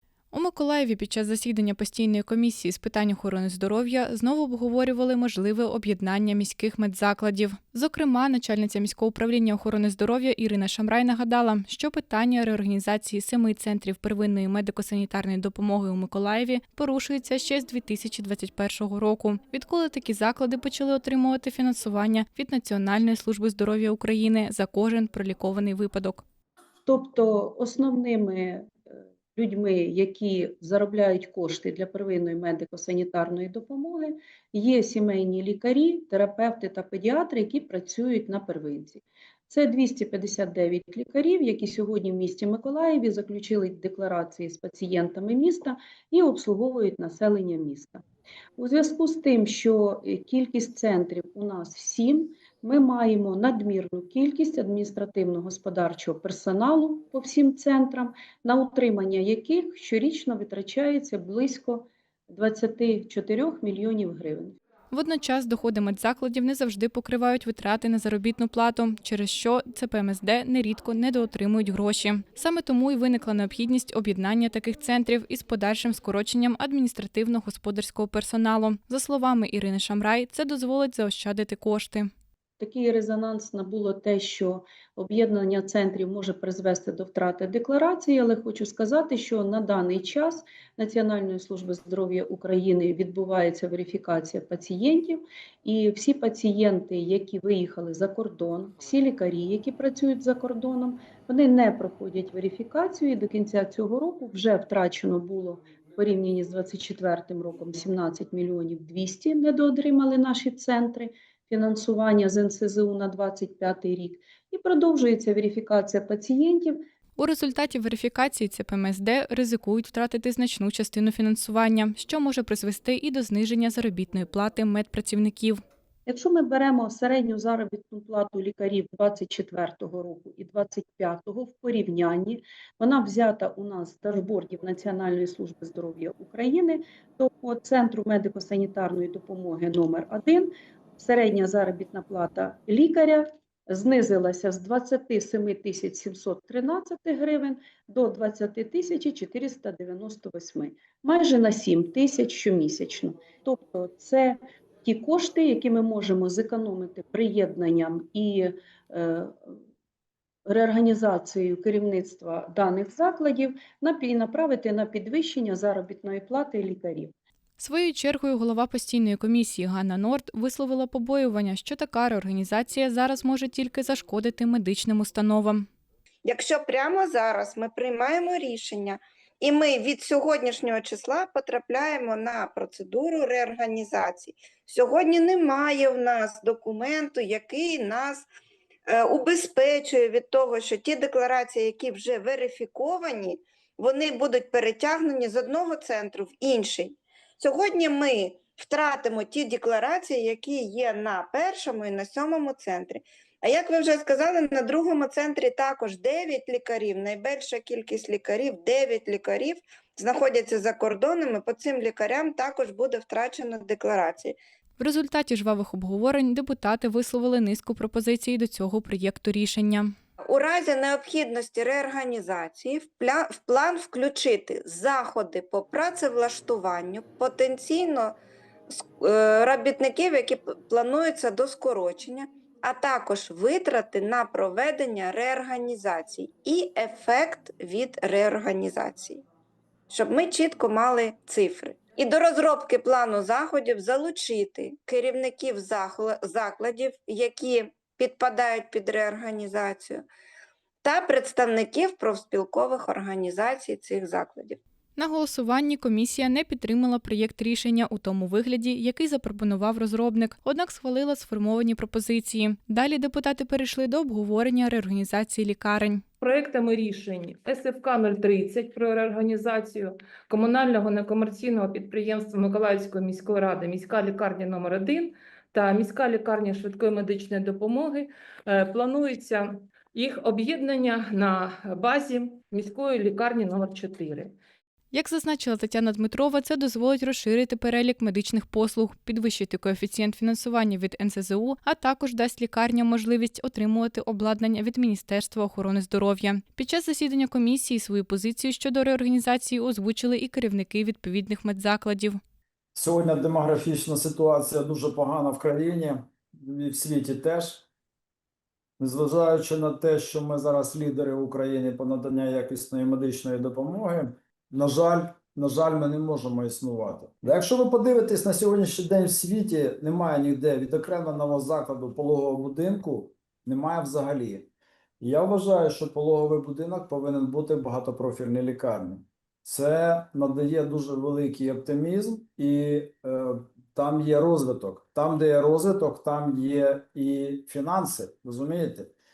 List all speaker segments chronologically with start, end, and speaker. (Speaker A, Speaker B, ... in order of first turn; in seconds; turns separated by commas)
Speaker A: 0.3-26.2, Speaker B: 26.9-28.7, Speaker B: 29.3-48.0, Speaker B: 48.6-64.5, Speaker A: 64.9-82.1, Speaker B: 82.6-116.8, Speaker A: 117.2-125.6, Speaker B: 126.0-159.5, Speaker B: 160.4-167.1, Speaker A: 167.6-175.7, Speaker C: 176.2-188.3, Speaker C: 188.9-214.3, Speaker A: 214.8-219.9, Speaker C: 220.3-228.2, Speaker C: 228.7-239.2, Speaker C: 239.9-250.1, Speaker C: 250.8-254.6, Speaker A: 255.0-266.0, Speaker D: 266.2-284.3, Speaker A: 284.9-302.2, Speaker E: 302.8-307.6, Speaker E: 308.8-324.5, Speaker E: 325.0-338.9